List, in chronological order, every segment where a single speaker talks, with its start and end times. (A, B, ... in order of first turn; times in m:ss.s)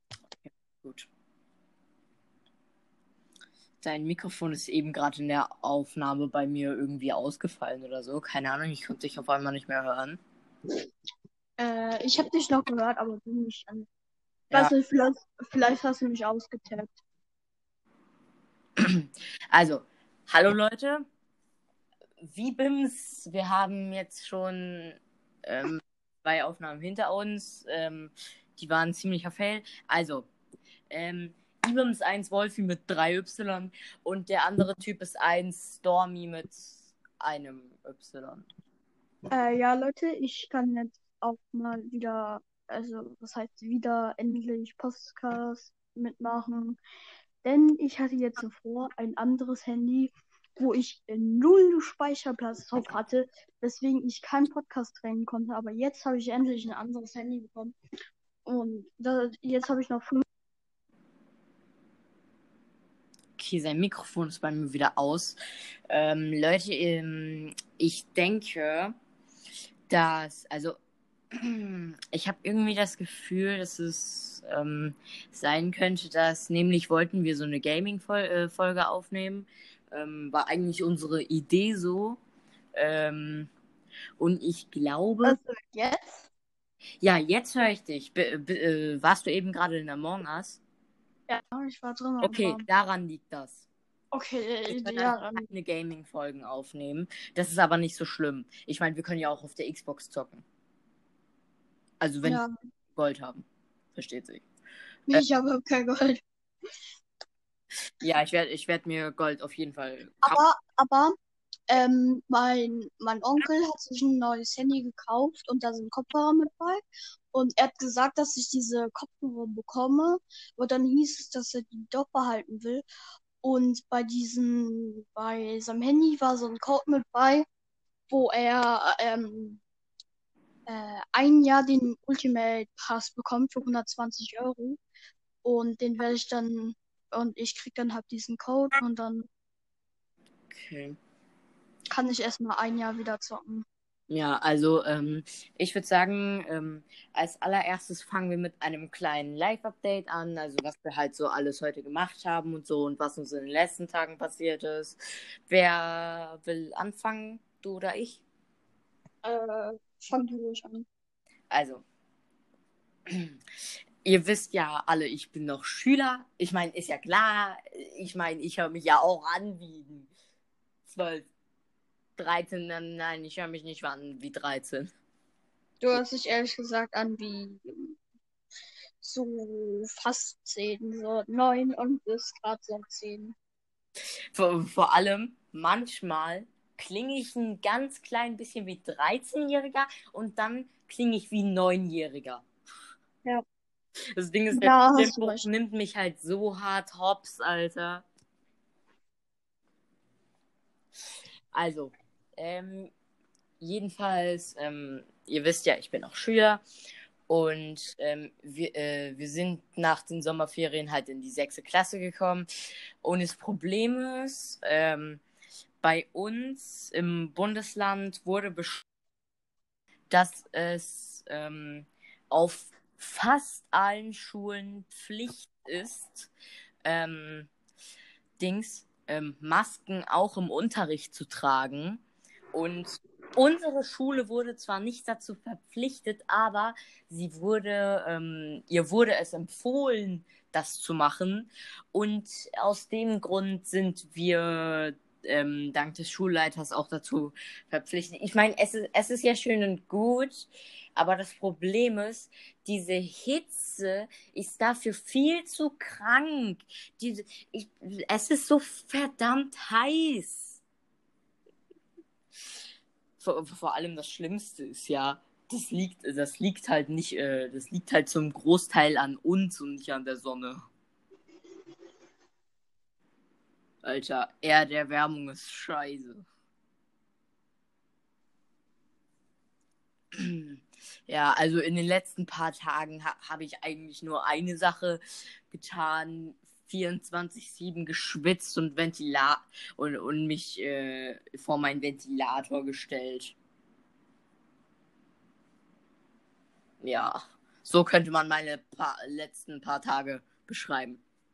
0:00.4-0:01.1 A
0:03.8-0:10.2 A
0:11.6-0:13.9 B
0:14.5-0:17.0 B
0:18.8-0:21.0 A
0:22.2-0:30.3 A
0:30.9-0:38.5 A
0:39.3-0:46.8 B
0:47.4-0:57.7 B
0:58.4-1:00.2 B
1:03.4-1:05.4 A
1:05.9-1:08.9 A
1:09.9-1:10.8 A
1:11.3-1:22.2 A
1:22.7-1:23.5 A
1:24.2-1:25.4 A
1:25.2-1:26.3 B
1:27.0-1:30.6 A
1:31.3-1:32.6 B
1:32.2-1:33.6 A
1:34.1-1:35.4 B
1:34.7-1:40.4 A
1:42.0-1:42.4 A
1:42.2-1:42.5 B
1:42.9-1:44.4 A
1:45.1-1:46.2 B
1:48.0-1:50.4 A
1:50.2-1:51.2 B
1:51.7-1:56.8 B
1:57.3-2:02.8 B
2:03.4-2:07.4 B
2:08.1-2:09.6 B
2:10.7-2:14.8 B
2:15.4-2:19.3 B
2:20.5-2:21.0 A
2:21.9-2:23.6 B
2:24.1-2:35.0 A
2:35.5-2:38.2 A
2:39.2-2:40.8 B
2:41.5-2:41.8 A
2:43.1-2:43.3 A
2:44.0-2:50.1 A
2:50.8-2:51.3 A
2:52.2-2:54.9 A
2:55.8-2:58.0 B
2:59.0-3:03.4 B
3:04.3-3:12.4 A
3:14.1-3:18.0 A
3:14.5-3:15.5 B
3:21.5-3:22.9 A
3:23.6-3:26.6 A
3:27.3-3:32.4 A
3:33.0-3:35.2 A
3:35.8-3:38.8 A
3:40.1-3:46.3 A
3:46.8-3:47.5 A
3:48.4-3:52.0 A
3:52.5-4:20.6 A
4:23.2-4:30.7 A
4:33.8-4:36.2 A
4:40.1-4:53.3 A
4:56.8-5:01.0 A